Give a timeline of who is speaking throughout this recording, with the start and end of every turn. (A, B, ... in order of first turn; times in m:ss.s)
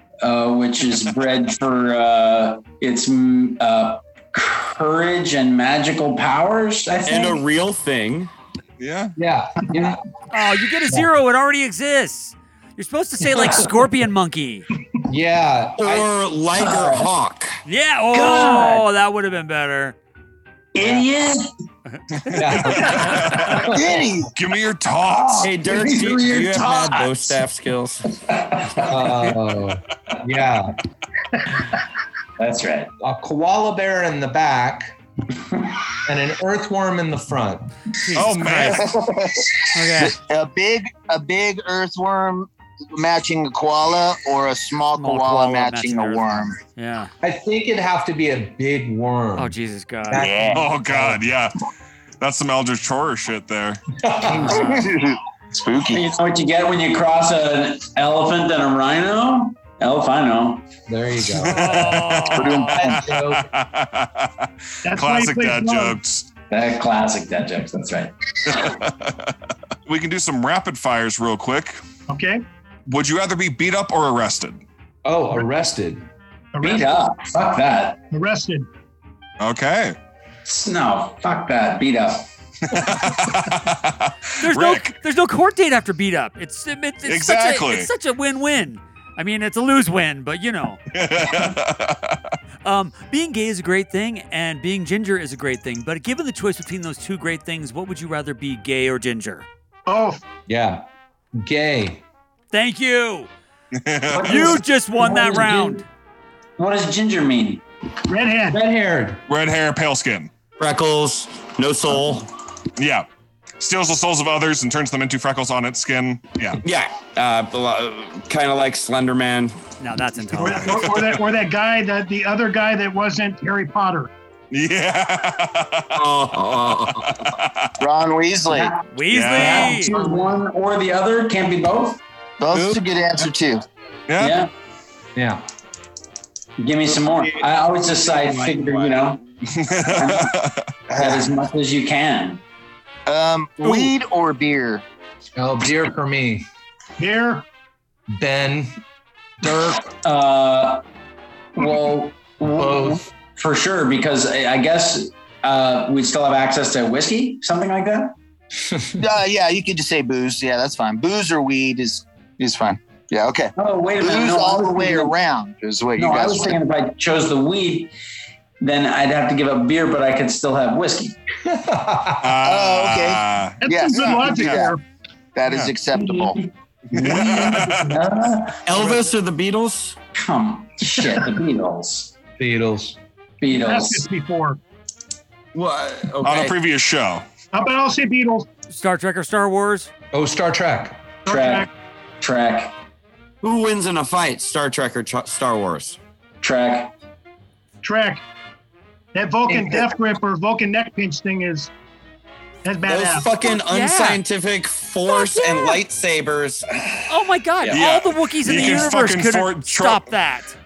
0:00.2-0:07.4 A
0:07.0-0:08.3 B
0:08.8-0:09.2 C
0:09.2-0:10.0 D
0:10.3-0:14.7 E
0:15.1-0:16.1 D
0:15.8-0:17.6 B
0:16.6-0:17.1 A
0:17.6-0:20.0 E
0:18.1-0:18.8 A
0:20.7-0:21.5 A
0:21.9-0:23.2 E
0:22.2-0:23.6 C
0:22.4-0:24.0 D
0:23.7-0:24.3 F
0:24.4-0:25.5 C
0:25.2-0:27.4 A
0:25.4-0:28.0 B
0:28.3-0:28.9 A
0:28.9-0:30.7 D
0:32.4-0:32.9 A
0:33.0-0:34.9 D
0:36.0-0:37.6 D
0:38.0-0:38.9 E
0:38.1-0:38.9 C
0:38.8-0:46.6 F
0:39.7-0:40.2 E
0:44.9-0:47.1 E
0:47.2-0:49.5 D
0:49.4-0:50.3 E
0:50.1-0:51.2 D
0:50.1-0:50.6 F
0:50.5-0:51.5 C
0:52.2-0:53.8 C
0:54.0-0:54.9 D
0:54.3-0:54.9 A
0:54.5-0:56.1 F
0:55.9-1:00.6 A
1:00.9-1:01.9 D
1:01.2-1:06.3 C
1:01.6-1:02.7 E
1:02.5-1:03.5 D
1:04.8-1:06.0 G
1:06.5-1:08.1 A
1:08.4-1:09.3 C
1:09.8-1:11.8 C
1:12.1-1:12.4 G
1:12.9-1:14.6 C
1:15.0-1:16.1 D
1:16.5-1:17.0 G
1:16.6-1:18.0 A
1:18.1-1:18.7 G
1:19.4-1:20.0 C
1:20.4-1:22.3 A
1:22.7-1:25.0 C
1:24.4-1:30.8 E
1:27.0-1:27.9 C
1:30.9-1:32.3 C
1:32.6-1:39.5 E
1:39.9-1:40.2 G
1:40.5-1:40.8 D
1:41.4-1:42.0 D
1:42.5-1:43.3 E
1:43.7-1:44.6 C
1:44.1-1:44.6 D
1:44.2-1:45.8 E
1:45.0-1:45.8 A
1:46.6-1:47.6 A
1:48.1-1:48.6 G
1:48.5-1:49.2 D
1:49.3-1:50.3 C
1:50.6-1:52.3 B
1:52.8-1:53.1 C
1:53.6-1:56.6 C
1:56.6-1:59.6 B
1:59.8-2:00.9 E
2:00.4-2:04.1 G
2:00.4-2:01.2 C
2:04.5-2:06.0 C
2:06.0-2:07.3 B
2:06.9-2:07.7 C
2:07.8-2:08.7 F
2:08.5-2:12.0 A
2:08.9-2:10.0 E
2:09.1-2:09.9 C
2:12.4-2:13.6 F
2:14.1-2:14.4 C
2:14.2-2:14.5 A
2:15.2-2:15.4 D
2:16.6-2:19.2 A
2:17.0-2:19.0 B
2:19.5-2:20.7 C
2:19.9-2:20.3 A
2:20.9-2:21.3 F
2:20.9-2:22.4 A
2:23.0-2:24.8 F
2:23.6-2:23.9 E
2:25.4-2:26.4 D
2:27.0-2:27.4 G
2:28.1-2:28.7 D
2:29.4-2:29.8 D
2:30.0-2:30.8 A
2:31.6-2:38.1 A
2:32.5-2:33.0 D
2:38.6-2:39.0 D
2:39.0-2:46.6 F
2:43.6-2:45.1 A
2:46.0-2:47.9 A
2:48.6-2:51.2 A
2:51.4-2:52.4 D
2:52.2-2:54.7 C
2:52.4-2:54.7 F
2:53.6-2:54.8 G
2:55.4-2:56.4 F
2:55.5-2:55.7 C
2:55.9-2:58.6 A
2:56.9-2:58.0 C
2:57.6-2:57.9 G
2:58.6-3:00.0 B
2:58.8-2:59.0 E
3:00.2-3:02.1 A
3:02.4-3:03.0 D
3:03.4-3:04.0 A
3:03.5-3:04.6 G
3:05.5-3:06.5 B
3:06.2-3:07.2 C
3:07.5-3:08.5 G
3:08.7-3:09.9 E
3:10.1-3:11.2 D
3:11.2-3:11.7 G
3:11.2-3:12.7 A
3:13.4-3:16.0 B
3:16.4-3:16.9 A
3:17.8-3:18.2 G
3:19.1-3:21.7 G
3:19.5-3:19.9 D
3:22.6-3:23.3 G
3:22.9-3:26.7 B
3:23.6-3:24.2 E
3:27.1-3:30.5 E
3:27.7-3:30.0 C